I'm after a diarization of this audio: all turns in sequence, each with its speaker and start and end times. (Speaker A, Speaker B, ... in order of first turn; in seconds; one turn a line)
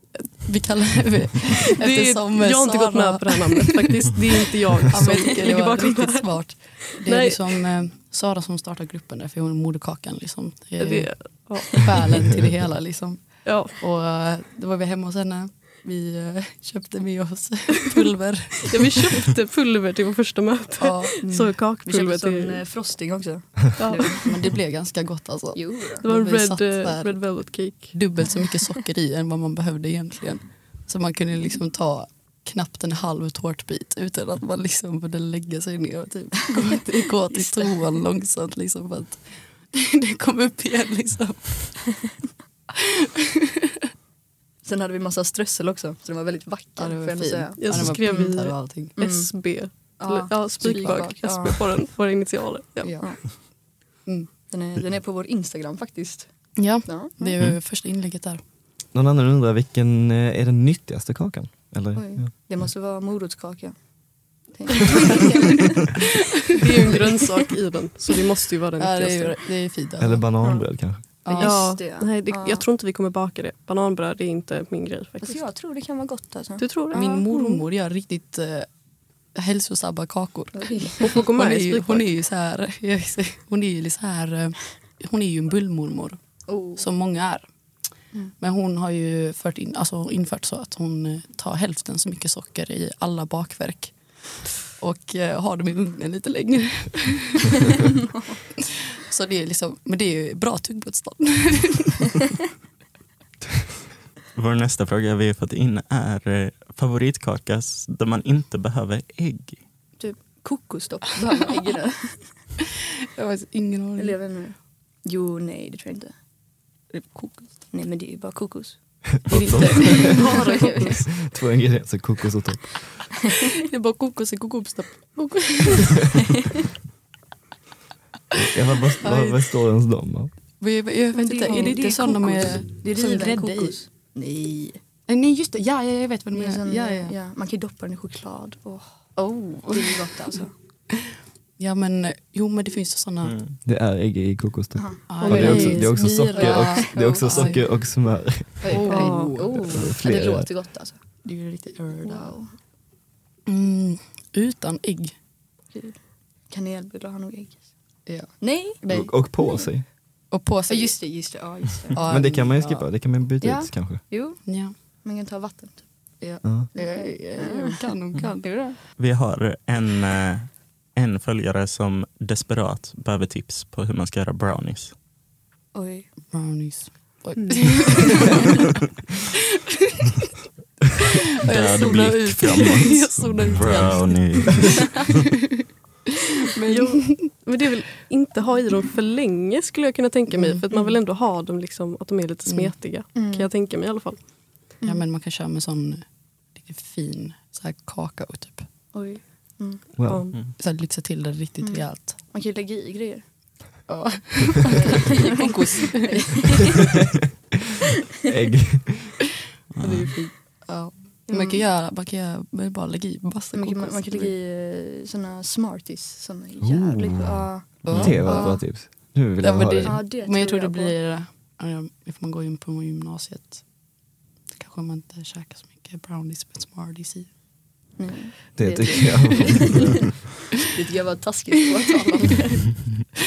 Speaker A: 0.4-4.1
Speaker B: 1.6-7.7
Speaker A: 4.7-19.2
Speaker B: 10.8-12.2
Speaker B: 13.4-13.8
Speaker B: 17.8-18.1
Speaker B: 18.6-22.6
Speaker A: 20.8-21.5
Speaker C: 21.2-24.4
Speaker B: 23.8-24.3
Speaker A: 24.2-42.1
Speaker C: 25.5-26.0
Speaker B: 26.0-28.5
Speaker C: 44.6-48.3
Speaker A: 46.8-49.0
Speaker B: 47.5-53.0
Speaker C: 49.0-51.6
Speaker A: 50.6-51.1
Speaker C: 52.8-53.4
Speaker C: 54.5-57.4
Speaker A: 56.5-58.4
Speaker D: 58.9-62.3
Speaker C: 61.9-63.8
Speaker C: 64.5-65.8
Speaker A: 65.2-65.6
Speaker B: 66.5-69.4
Speaker A: 68.8-70.2
Speaker D: 70.0-71.0
Speaker A: 71.2-71.6
Speaker C: 71.2-72.7
Speaker B: 71.4-75.5
Speaker C: 75.2-77.1
Speaker B: 76.6-77.6
Speaker A: 76.9-78.7
Speaker A: 79.3-86.2
Speaker C: 80.5-81.1
Speaker B: 81.0-82.2
Speaker C: 86.5-86.9
Speaker A: 86.8-87.5
Speaker A: 88.4-94.0
Speaker A: 94.6-97.7
Speaker A: 99.0-102.2
Speaker E: 104.3-109.6
Speaker C: 110.0-112.3
Speaker A: 113.1-114.2
Speaker C: 114.0-116.1
Speaker A: 116.9-117.5
Speaker C: 117.7-118.8
Speaker A: 119.3-120.9
Speaker D: 119.3-120.3
Speaker C: 119.8-121.1
Speaker B: 120.2-120.9
Speaker D: 121.3-123.1
Speaker A: 123.3-126.1
Speaker D: 128.4-130.3
Speaker A: 129.0-129.5
Speaker A: 130.6-133.8
Speaker C: 131.1-134.8
Speaker A: 135.1-137.2
Speaker C: 136.3-139.0
Speaker A: 139.2-140.4
Speaker C: 139.7-140.5
Speaker A: 141.6-143.4
Speaker E: 143.2-143.6
Speaker D: 143.7-150.5
Speaker C: 144.7-147.7
Speaker A: 145.1-147.6
Speaker B: 145.2-145.9
Speaker C: 148.6-151.0
Speaker A: 148.7-149.7
Speaker B: 148.8-149.3
Speaker A: 151.2-152.3
Speaker C: 152.0-152.6
Speaker A: 153.5-155.1
Speaker C: 155.7-157.7
Speaker A: 158.1-158.3
Speaker C: 158.4-159.4
Speaker D: 158.8-159.8
Speaker A: 160.3-161.0
Speaker C: 160.7-162.0
Speaker A: 161.9-162.9
Speaker D: 162.1-164.0
Speaker C: 163.4-168.7
Speaker A: 164.4-164.7
Speaker D: 166.4-166.7
Speaker A: 166.7-168.6
Speaker E: 169.0-174.9
Speaker C: 175.7-176.1
Speaker A: 176.3-178.5
Speaker B: 177.4-178.3
Speaker E: 181.4-185.1
Speaker A: 181.4-183.3
Speaker C: 181.7-182.9
Speaker B: 181.8-184.5
Speaker A: 186.5-187.4
Speaker B: 186.6-194.2
Speaker A: 190.3-190.8
Speaker A: 192.4-192.9
Speaker C: 193.1-193.5
Speaker A: 194.8-196.0
Speaker A: 196.5-198.7
Speaker C: 198.9-199.8
Speaker D: 200.0-200.2
Speaker B: 200.0-200.4
Speaker A: 200.6-202.1
Speaker C: 201.6-203.2
Speaker A: 203.9-206.3
Speaker C: 204.7-206.7
Speaker D: 208.2-209.2
Speaker E: 209.7-210.2
Speaker C: 209.8-210.6
Speaker A: 209.9-214.3
Speaker C: 211.3-211.6
Speaker C: 213.5-220.9
Speaker D: 216.6-220.0
Speaker A: 217.9-218.3
Speaker E: 217.9-218.2
Speaker A: 219.4-223.6
Speaker A: 224.5-227.3
Speaker C: 228.0-229.9
Speaker D: 228.6-230.1
Speaker C: 230.7-232.7